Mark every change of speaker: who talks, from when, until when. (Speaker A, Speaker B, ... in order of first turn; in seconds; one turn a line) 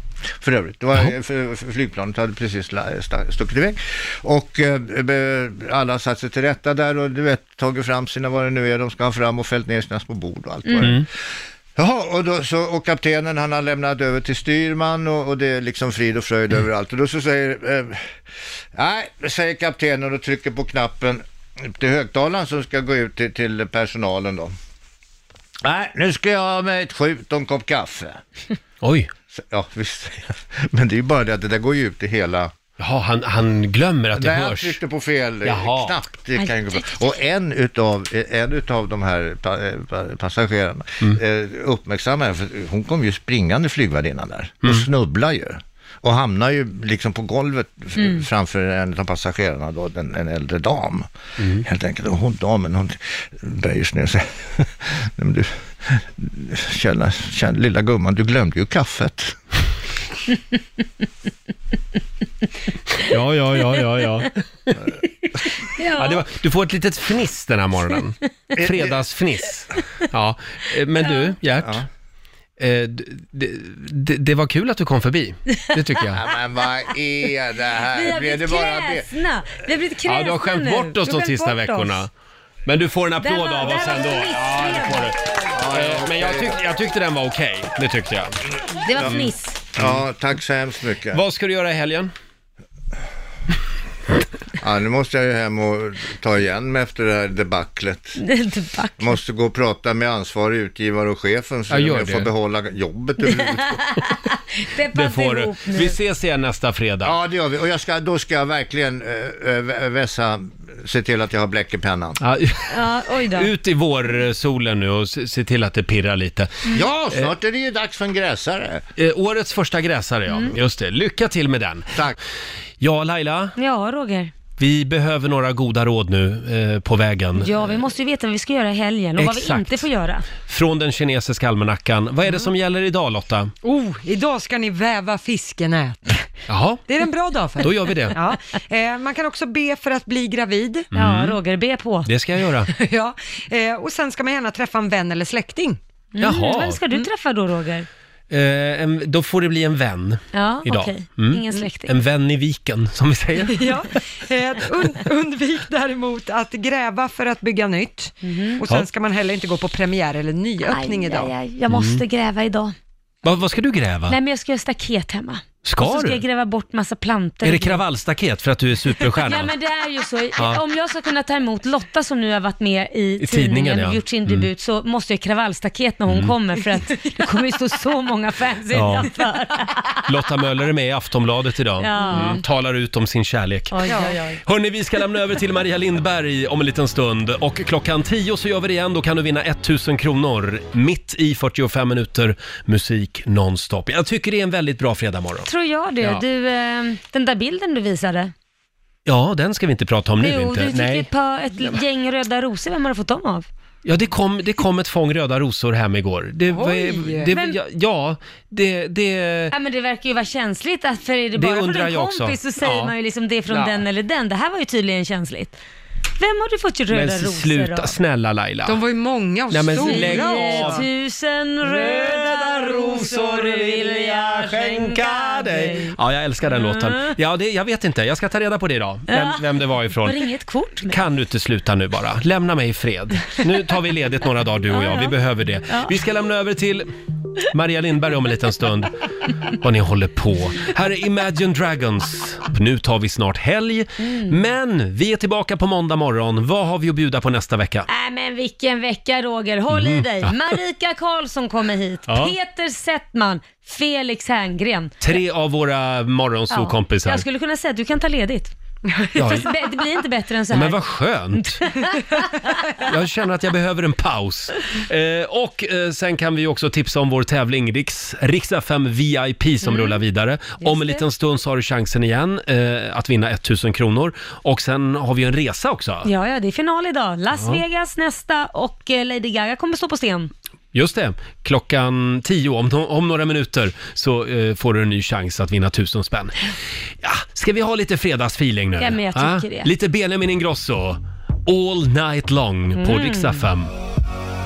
Speaker A: 0.4-11.1
Speaker B: 10.6-10.9
Speaker C: 10.8-11.0
Speaker A: 11.8-18.1
Speaker A: 18.7-24.5
Speaker A: 25.6-28.2
Speaker C: 28.8-29.1
Speaker A: 29.3-32.5
Speaker C: 32.8-34.8
Speaker A: 34.1-59.4
Speaker C: 35.4-35.9
Speaker C: 51.4-51.6
Speaker C: 63.0-64.8
Speaker B: 65.6-66.2
Speaker C: 65.9-71.8
Speaker A: 68.5-69.1
Speaker B: 71.0-71.3
Speaker A: 71.6-71.8
Speaker C: 72.6-76.2
Speaker A: 76.1-79.1
Speaker B: 77.9-82.0
Speaker C: 80.0-82.1
Speaker C: 82.7-88.4
Speaker B: 83.2-85.1
Speaker A: 85.5-86.6
Speaker B: 88.8-89.6
Speaker C: 89.0-90.0
Speaker A: 89.7-91.2
Speaker C: 91.1-92.1
Speaker A: 94.6-98.2
Speaker B: 98.2-99.2
Speaker A: 99.0-103.9
Speaker C: 101.7-102.3
Speaker B: 103.2-106.0
Speaker C: 104.9-107.1
Speaker A: 107.0-112.2
Speaker C: 112.2-117.3
Speaker B: 112.7-113.5
Speaker A: 116.7-118.8
Speaker C: 119.0-121.9
Speaker C: 122.8-123.5
Speaker B: 123.5-124.3
Speaker C: 124.6-127.7
Speaker B: 127.3-130.3
Speaker C: 129.2-129.9
Speaker C: 130.4-133.5
Speaker D: 133.6-136.2
Speaker C: 136.5-136.8
Speaker D: 136.9-140.9
Speaker C: 137.6-138.2
Speaker C: 140.9-141.4
Speaker B: 140.9-142.1
Speaker C: 142.1-142.7
Speaker D: 142.7-145.8
Speaker B: 146.2-147.9
Speaker C: 146.2-146.8
Speaker C: 148.3-153.7
Speaker B: 150.3-151.9
Speaker D: 153.5-161.3
Speaker B: 158.2-158.6
Speaker B: 160.7-162.7
Speaker C: 161.7-162.0
Speaker C: 163.2-164.2
Speaker B: 164.1-167.8
Speaker C: 165.6-166.2
Speaker C: 167.4-169.5
Speaker B: 169.2-180.0
Speaker C: 170.4-170.6
Speaker C: 173.2-174.5
Speaker C: 176.1-176.3
Speaker C: 178.7-179.1
Speaker C: 180.1-183.8
Speaker B: 181.8-182.4
Speaker B: 183.7-184.4
Speaker D: 183.8-184.2
Speaker C: 184.4-195.5
Speaker B: 195.4-198.3
Speaker C: 199.1-201.1
Speaker B: 200.2-203.5
Speaker C: 203.8-209.5
Speaker D: 206.5-207.3
Speaker B: 207.3-207.6
Speaker B: 209.5-215.6
Speaker C: 211.3-212.9
Speaker C: 213.5-213.8
Speaker B: 216.2-217.9
Speaker C: 216.9-218.8
Speaker D: 218.6-220.8
Speaker C: 219.5-220.9
Speaker B: 219.8-225.9
Speaker C: 221.6-230.2
Speaker B: 226.5-227.1
Speaker B: 229.1-229.4
Speaker B: 230.0-231.0
Speaker C: 230.9-236.9
Speaker B: 234.7-235.1
Speaker B: 235.7-235.9
Speaker C: 237.5-238.9
Speaker C: 239.5-247.9
Speaker B: 244.0-244.3
Speaker B: 247.9-255.1
Speaker C: 249.7-250.5
Speaker C: 252.1-252.3
Speaker C: 255.0-257.2
Speaker B: 256.5-258.5
Speaker D: 258.9-259.1
Speaker C: 259.1-259.5
Speaker B: 259.2-260.8
Speaker C: 260.5-261.6
Speaker B: 261.3-262.6
Speaker C: 262.8-276.1
Speaker B: 269.6-270.0
Speaker B: 270.6-271.0
Speaker B: 276.0-280.3
Speaker C: 277.3-277.6
Speaker C: 280.7-286.4
Speaker C: 287.0-293.7
Speaker B: 288.8-289.7
Speaker B: 292.8-293.4